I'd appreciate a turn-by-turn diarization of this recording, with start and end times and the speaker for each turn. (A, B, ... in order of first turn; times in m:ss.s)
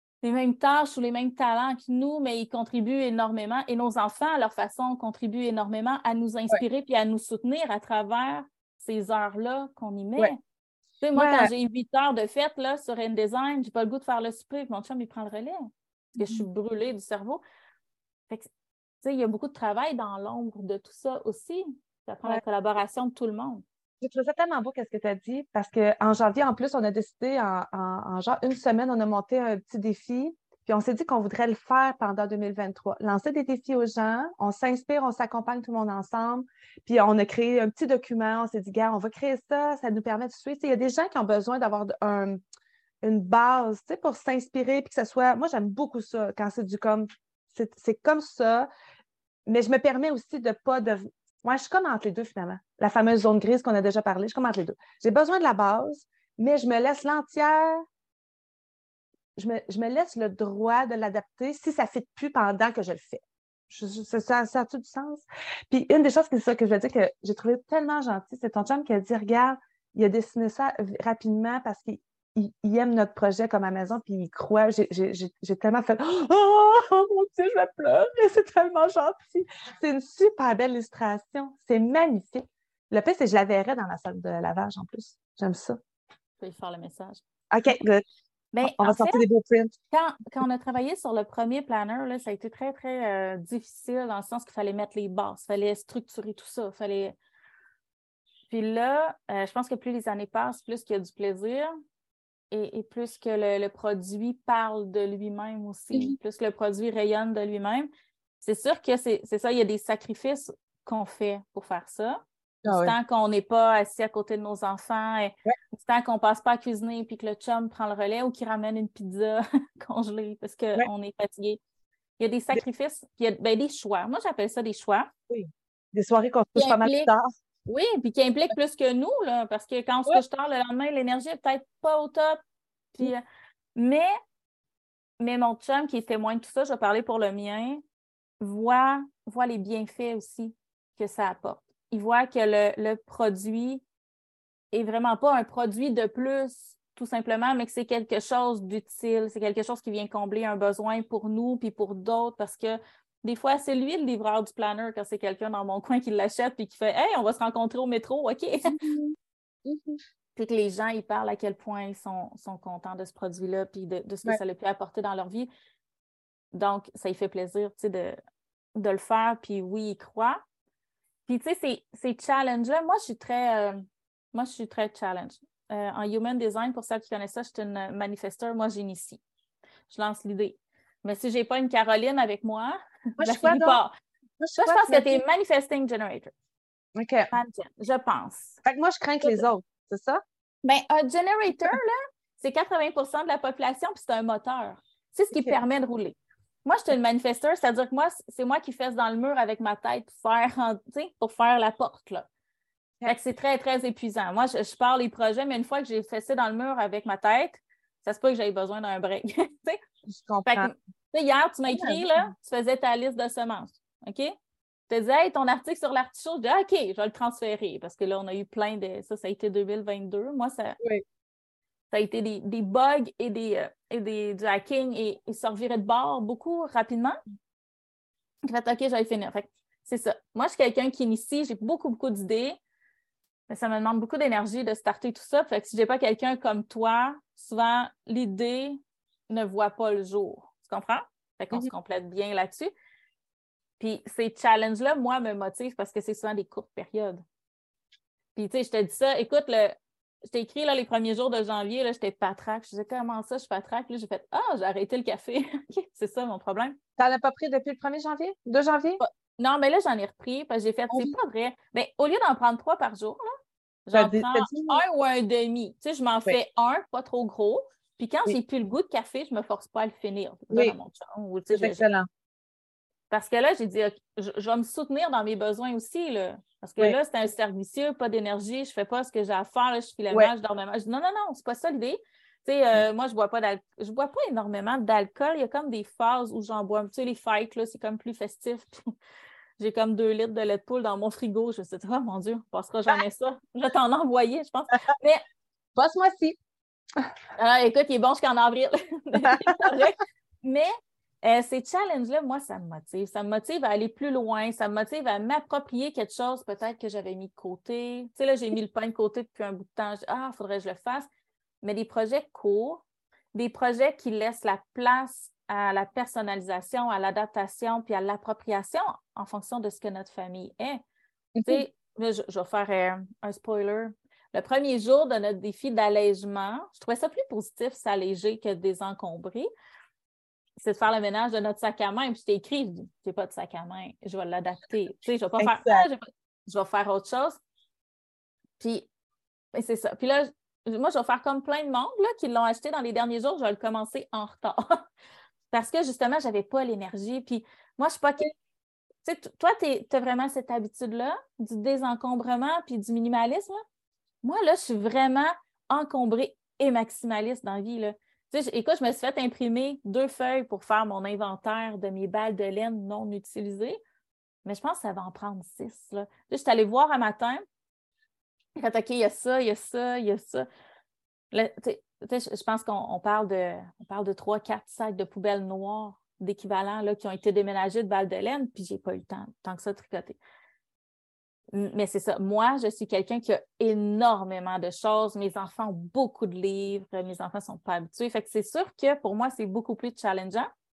0:00.2-0:10.4 A
0:11.0-0:15.6 A
0:11.2-0:11.5 B
0:16.2-0:16.4 B
0:16.2-0:17.4 A
0:19.0-0:23.6 A
0:24.0-0:42.4 B
0:43.0-0:48.7 B
0:49.5-0:57.8 B
0:59.4-1:25.8 B
1:26.4-1:27.2 A
1:27.5-1:28.0 B
1:28.5-1:29.2 A
1:28.6-1:29.7 B
1:29.9-1:37.2 A
1:38.5-1:41.7 A
1:42.5-1:47.9 A
1:48.4-2:01.6 A
1:52.6-1:52.9 B
2:02.2-2:05.1 A
2:05.3-2:07.3 B
2:06.6-2:07.1 A
2:07.7-2:12.4 A
2:12.9-2:13.2 A
2:13.8-2:14.1 A
2:15.2-2:17.8 A
2:18.4-2:23.8 A
2:24.7-2:38.8 A
2:38.6-2:40.0 B
2:40.4-2:45.5 A
2:46.5-2:48.2 A
2:48.8-2:50.4 A
2:51.3-2:59.2 A
2:59.9-3:03.9 A
3:03.2-3:03.8 B
3:04.4-3:05.2 B
3:04.6-3:06.3 A
3:07.0-3:07.3 B
3:07.3-3:08.6 A
3:08.6-3:10.2 B
3:10.6-3:22.3 A
3:15.3-3:15.6 B
3:23.1-3:29.8 A
3:30.1-3:30.7 B
3:30.5-3:34.4 A
3:31.7-3:32.3 B
3:34.9-3:40.8 A
3:41.9-3:47.2 A
3:48.5-3:52.6 A
3:53.5-4:02.7 A
4:03.8-4:07.2 A
4:08.4-4:16.8 A
4:17.0-4:19.0 B
4:19.0-4:23.3 A
4:23.9-4:31.8 A
4:23.9-4:24.8 B
4:31.5-4:32.1 B
4:33.1-4:48.9 A
4:49.6-4:55.2 A
4:55.8-4:56.4 B
4:57.4-5:00.7 A
4:59.2-4:59.6 B
5:01.2-5:11.1 A
5:11.6-5:12.8 A
5:13.3-5:20.8 A
5:21.4-5:21.6 B
5:21.4-5:29.5 A
5:30.6-5:37.4 A
5:35.4-5:35.9 B
5:38.6-5:38.9 A
5:39.5-5:44.7 A
5:45.5-5:48.3 A
5:49.0-5:53.6 A
5:54.2-6:03.8 A
6:04.4-6:07.4 A
6:08.6-6:10.5 A
6:11.3-6:20.2 A
6:21.5-6:30.5 A